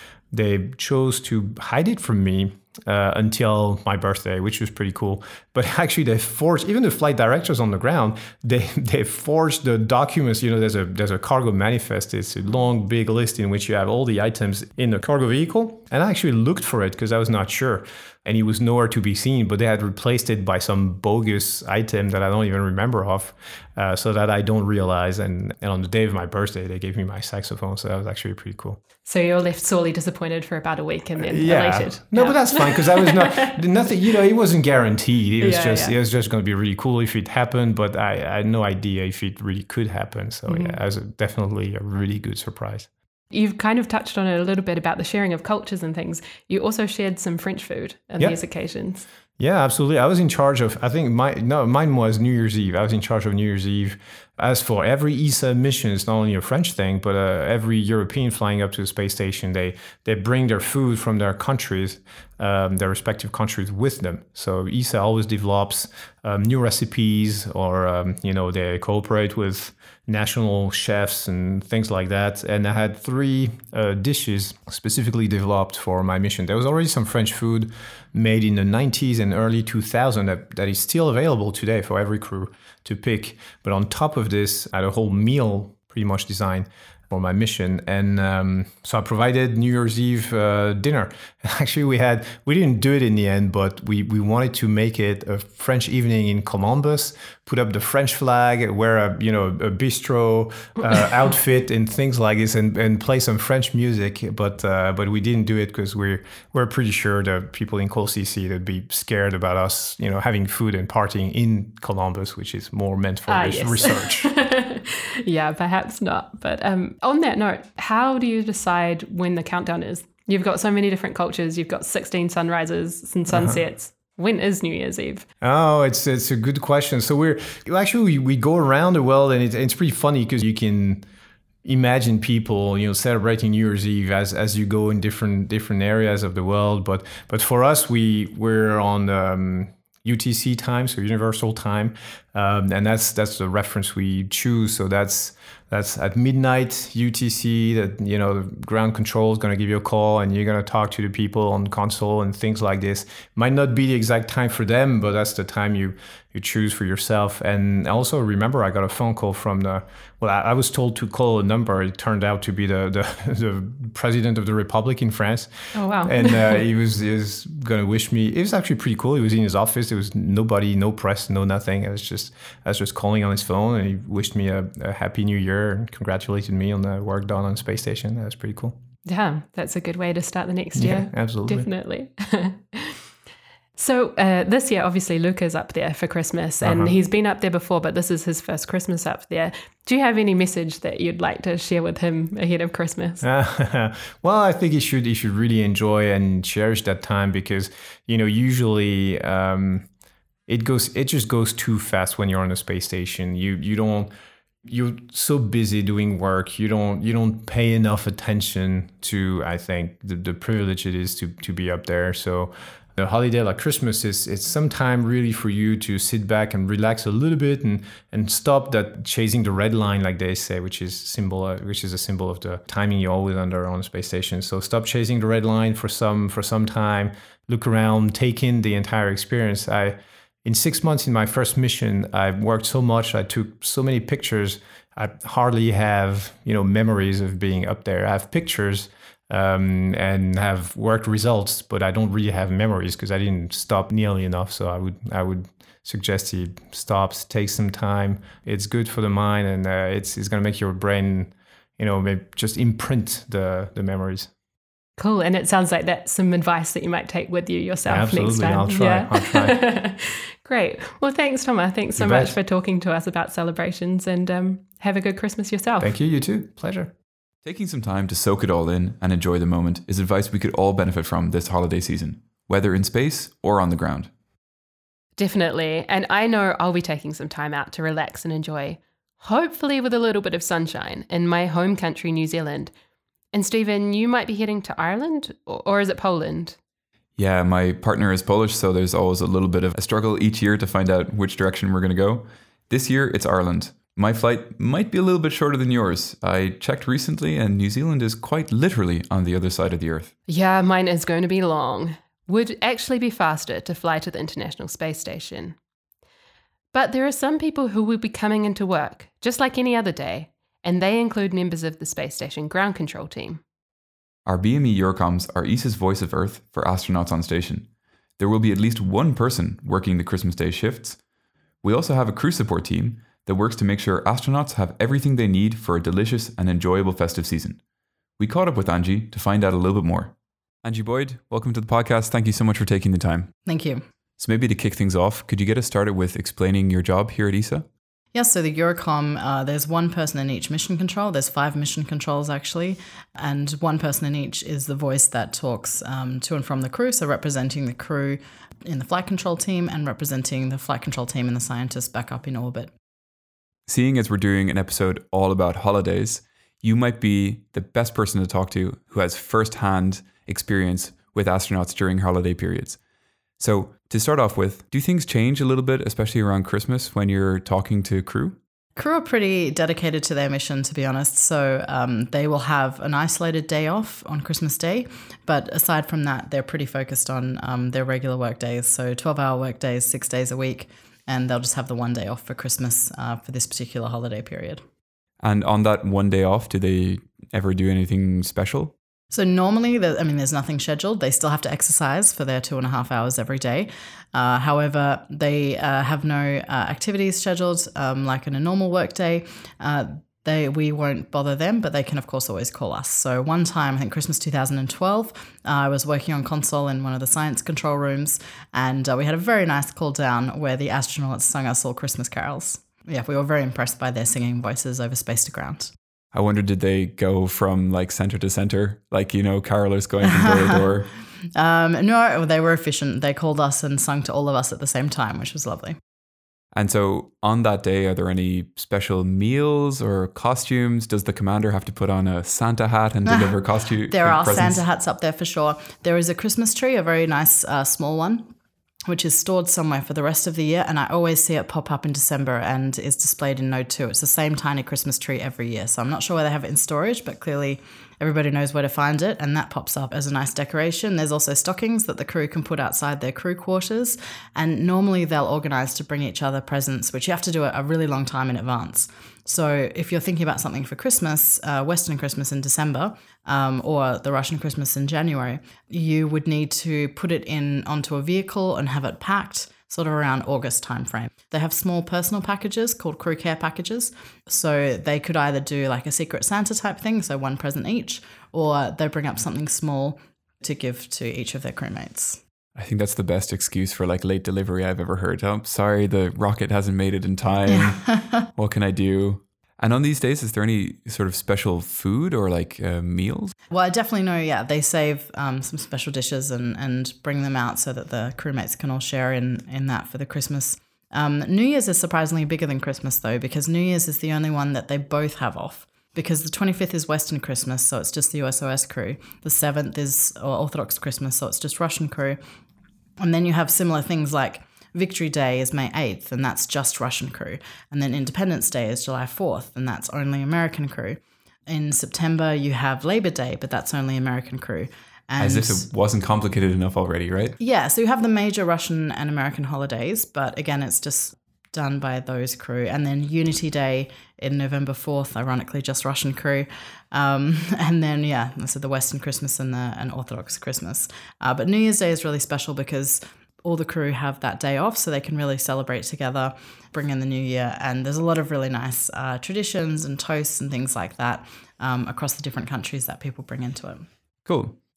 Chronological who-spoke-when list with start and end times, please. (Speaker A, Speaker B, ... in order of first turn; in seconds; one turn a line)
Speaker A: 0.3-28.8
Speaker B: 29.1-33.6
Speaker A: 31.2-42.9
Speaker B: 35.4-36.0
Speaker B: 40.5-40.8
Speaker B: 43.3-49.0
Speaker A: 49.4-114.3
Speaker B: 113.3-125.2
Speaker A: 123.3-123.6
Speaker A: 125.4-131.1
Speaker A: 131.6-178.8
Speaker B: 165.8-166.6
Speaker B: 179.1-183.0
Speaker A: 180.8-181.7
Speaker B: 183.8-193.2
Speaker A: 186.6-186.9
Speaker A: 193.2-199.9
Speaker A: 200.5-204.1
Speaker A: 204.7-254.3
Speaker B: 255.0-265.9
Speaker A: 257.9-259.6
Speaker A: 262.0-262.4
Speaker A: 265.8-266.9
Speaker C: 267.4-274.1
Speaker B: 275.2-282.7
Speaker B: 283.3-286.6
Speaker C: 287.2-300.1
Speaker B: 300.3-305.6
Speaker B: 306.7-313.4
Speaker C: 314.3-321.0
Speaker C: 321.6-327.6
Speaker C: 328.2-333.4
Speaker D: 333.5-333.8
Speaker C: 334.2-337.7
Speaker D: 338.1-352.7
Speaker C: 353.7-362.8
Speaker C: 363.4-368.4
Speaker D: 368.8-384.6
Speaker C: 385.2-388.8
Speaker D: 389.1-415.7
Speaker C: 416.1-420.9
Speaker D: 420.1-420.6
Speaker D: 421.4-425.8
Speaker C: 426.5-434.6
Speaker D: 433.1-433.4
Speaker D: 433.9-438.3
Speaker D: 438.9-482.2
Speaker C: 482.6-493.4
Speaker D: 487.5-488.3
Speaker D: 493.5-512.2
Speaker D: 513.0-525.7
Speaker C: 525.2-527.4
Speaker D: 527.4-553.9
Speaker C: 554.2-554.6